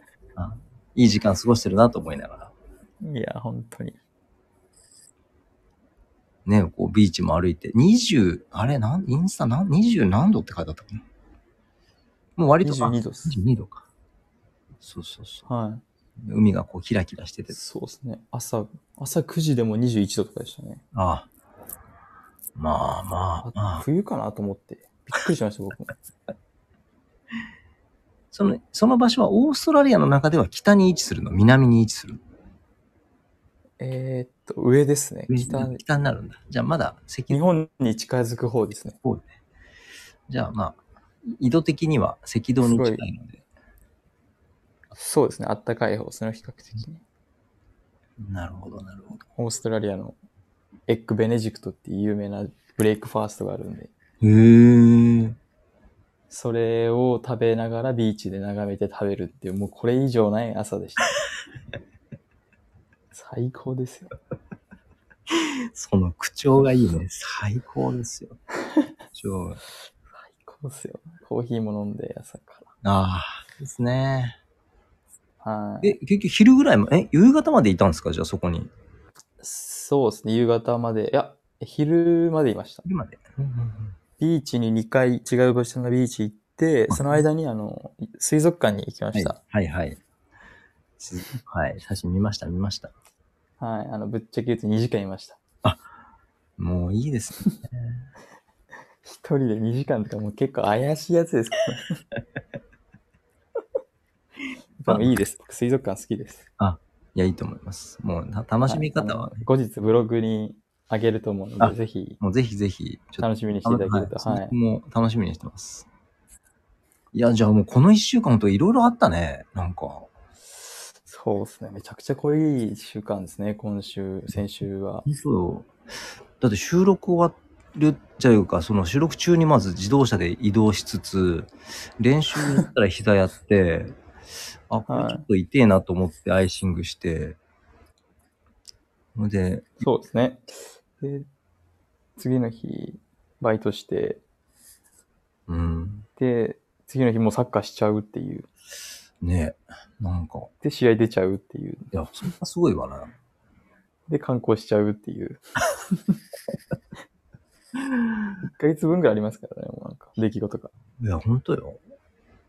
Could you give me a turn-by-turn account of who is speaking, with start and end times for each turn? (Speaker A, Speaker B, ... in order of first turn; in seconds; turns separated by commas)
Speaker A: 0.4-2.5, Speaker B: 3.0-4.0, Speaker A: 6.5-11.0, Speaker A: 12.4-13.9, Speaker B: 12.6-13.4, Speaker A: 14.8-15.5, Speaker B: 15.5-15.8, Speaker A: 16.2-17.6, Speaker B: 17.5-20.8, Speaker A: 20.9-21.3, Speaker A: 22.6-23.9, Speaker B: 23.4-25.9, Speaker A: 28.3-32.2, Speaker B: 33.8-35.8, Speaker A: 35.3-37.4, Speaker B: 37.3-39.0, Speaker A: 39.0-39.3, Speaker A: 40.3-43.4, Speaker B: 42.6-43.1, Speaker B: 45.0-47.0, Speaker A: 48.2-49.2, Speaker B: 49.4-50.2, Speaker B: 50.9-53.9, Speaker A: 54.2-55.4, Speaker B: 56.3-61.2, Speaker B: 63.1-64.1, Speaker A: 65.3-68.4, Speaker A: 69.1-69.6, Speaker B: 70.2-72.7, Speaker A: 72.8-74.4, Speaker B: 75.4-76.0, Speaker A: 75.8-78.7, Speaker B: 79.4-82.9, Speaker A: 82.9-83.9, Speaker B: 84.2-89.4, Speaker A: 86.9-87.2, Speaker A: 89.1-90.0, Speaker A: 91.0-92.9, Speaker B: 93.6-95.4, Speaker A: 96.6-98.0, Speaker B: 99.0-102.0, Speaker B: 104.8-106.5, Speaker A: 106.6-109.5, Speaker B: 108.7-112.2, Speaker A: 111.6-115.9, Speaker B: 113.2-114.5, Speaker A: 117.1-120.1, Speaker B: 121.0-125.1, Speaker A: 125.1-125.7, Speaker A: 126.4-133.9, Speaker A: 134.7-137.4, Speaker B: 134.9-135.2, Speaker A: 139.2-139.8, Speaker B: 139.8-141.3, Speaker B: 142.2-144.2, Speaker A: 145.5-146.1, Speaker B: 146.2-148.5, Speaker A: 149.2-150.5, Speaker B: 150.6-151.9, Speaker A: 151.9-153.1, Speaker B: 154.1-156.2, Speaker B: 158.4-160.7, Speaker A: 161.0-161.8